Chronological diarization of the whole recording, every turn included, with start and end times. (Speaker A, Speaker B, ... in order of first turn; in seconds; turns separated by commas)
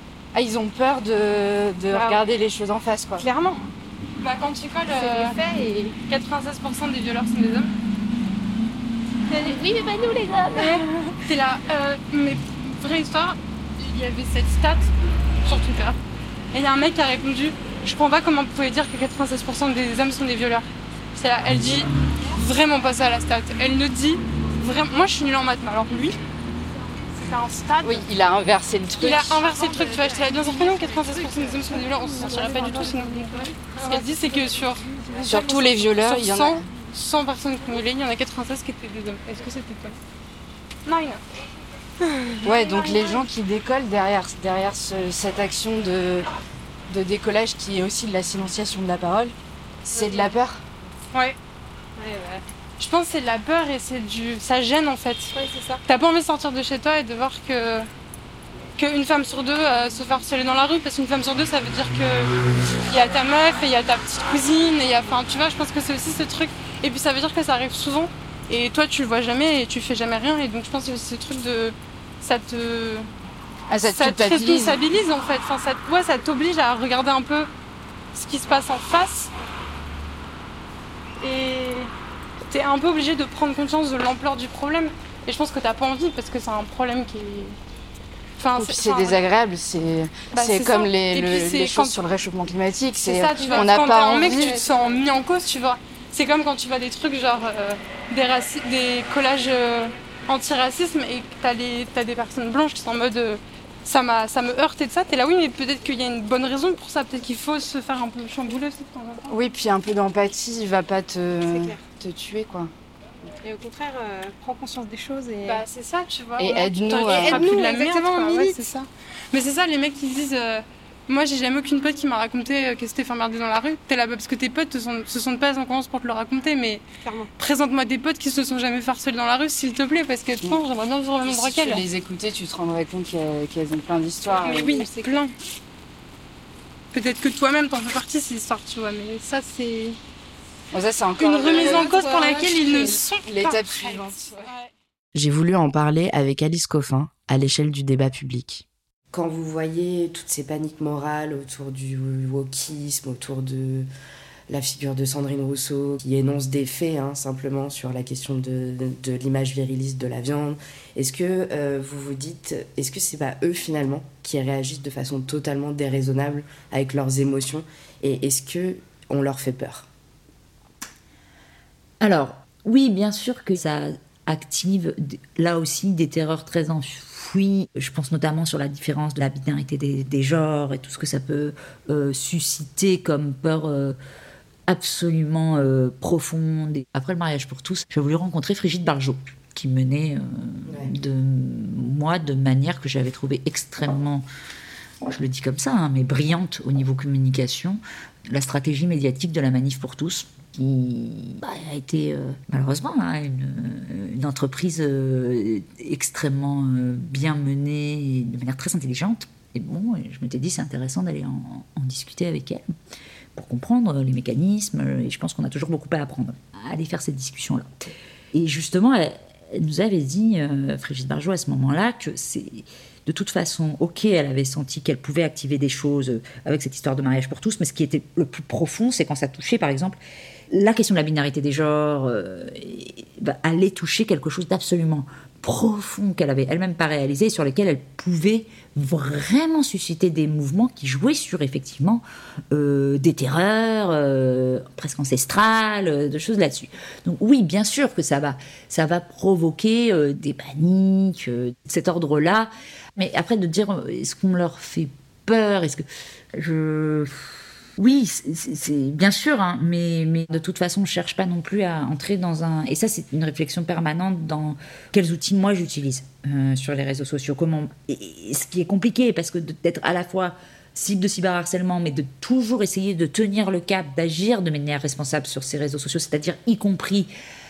Speaker A: 0.3-3.3, Speaker B: 1.9-2.2, Speaker C: 4.2-5.4, Speaker B: 4.9-6.0, Speaker C: 6.1-7.7, Speaker B: 9.3-10.9, Speaker C: 10.5-14.9, Speaker C: 15.4-16.0, Speaker C: 16.5-26.2, Speaker C: 27.2-28.0, Speaker A: 27.8-29.4, Speaker C: 29.0-40.0, Speaker B: 29.4-35.5, Speaker A: 35.2-36.6, Speaker C: 40.9-41.2, Speaker C: 42.4-43.2, Speaker A: 42.4-46.3, Speaker A: 46.9-49.3, Speaker A: 49.9-50.6, Speaker B: 49.9-50.3, Speaker B: 52.0-52.4, Speaker C: 52.8-55.3, Speaker B: 55.3-55.8, Speaker C: 55.9-57.9, Speaker C: 58.8-62.4, Speaker C: 62.9-73.1, Speaker A: 73.7-74.8, Speaker C: 73.8-77.5, Speaker C: 78.1-79.3, Speaker C: 81.2-81.9, Speaker C: 82.5-87.6, Speaker C: 88.4-89.2, Speaker A: 88.5-94.6, Speaker C: 90.3-92.0, Speaker C: 93.0-109.4, Speaker B: 93.3-95.0, Speaker A: 109.3-112.7, Speaker B: 111.5-111.8, Speaker B: 113.4-115.7, Speaker C: 115.5-126.8, Speaker A: 116.4-117.5, Speaker B: 117.0-118.6, Speaker B: 127.0-127.3, Speaker C: 127.4-131.9, Speaker A: 131.2-134.8, Speaker B: 134.4-135.2, Speaker C: 134.4-135.3, Speaker C: 136.9-140.0, Speaker A: 140.7-144.5, Speaker C: 141.2-144.7, Speaker B: 141.4-142.9, Speaker D: 145.2-153.9, Speaker D: 154.5-169.9, Speaker E: 172.0-184.0, Speaker E: 184.7-194.2, Speaker E: 195.0-212.7, Speaker E: 213.3-217.7, Speaker E: 218.3-230.0, Speaker E: 230.5-277.1